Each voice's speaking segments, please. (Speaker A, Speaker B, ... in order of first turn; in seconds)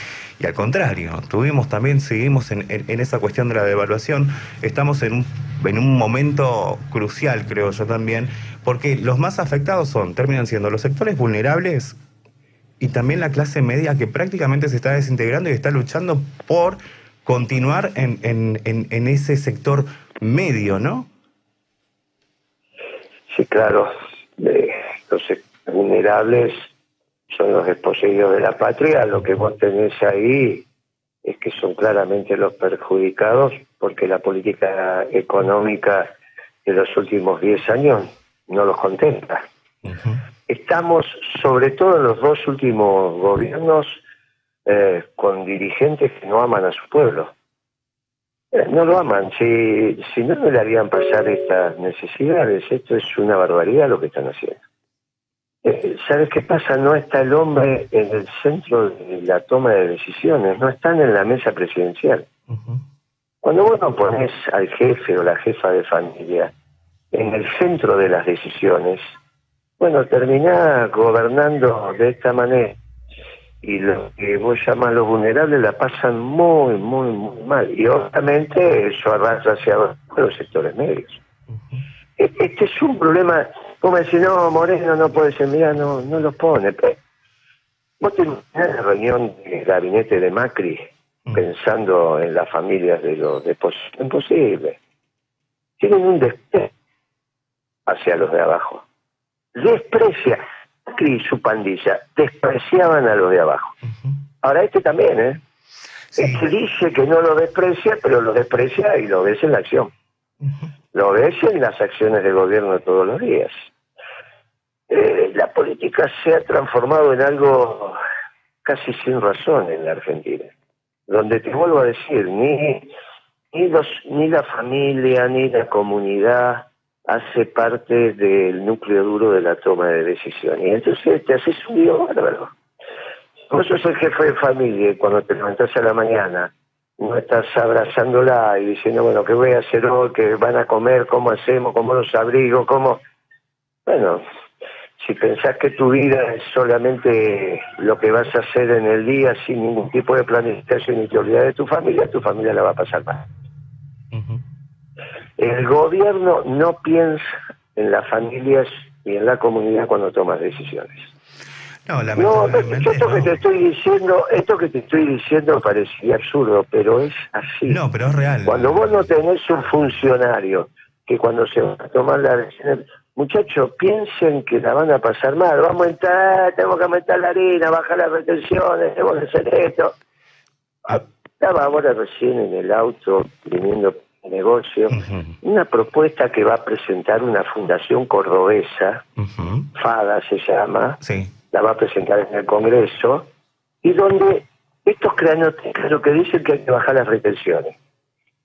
Speaker A: 0.4-12.0, 12.8-21.1, 39.8-40.2, 62.5-62.8, 106.1-106.5, 110.4-110.7, 154.1-154.4, 161.8-163.3, 167.7-169.1, 184.9-185.3, 189.2-189.7, 191.0-191.3
Speaker B: 23.3-26.7, 27.3-30.6, 31.2-36.1, 36.6-39.4, 40.5-44.0, 44.6-47.3, 48.5-54.6, 55.6-62.3, 63.4-66.5, 67.1-69.1, 69.8-72.8, 73.6-81.2, 82.2-87.0, 88.0-94.8, 95.8-96.7, 97.9-98.8, 99.5-103.8, 104.4-105.4, 106.2-109.9, 110.9-113.6, 114.9-118.0, 118.6-120.5, 121.1-122.9, 123.5-132.5, 133.5-143.0, 143.8-144.2, 145.0-153.3, 155.4-161.1, 162.2-167.8, 168.4-179.9, 180.9-189.0, 189.7-193.3, 193.8-197.8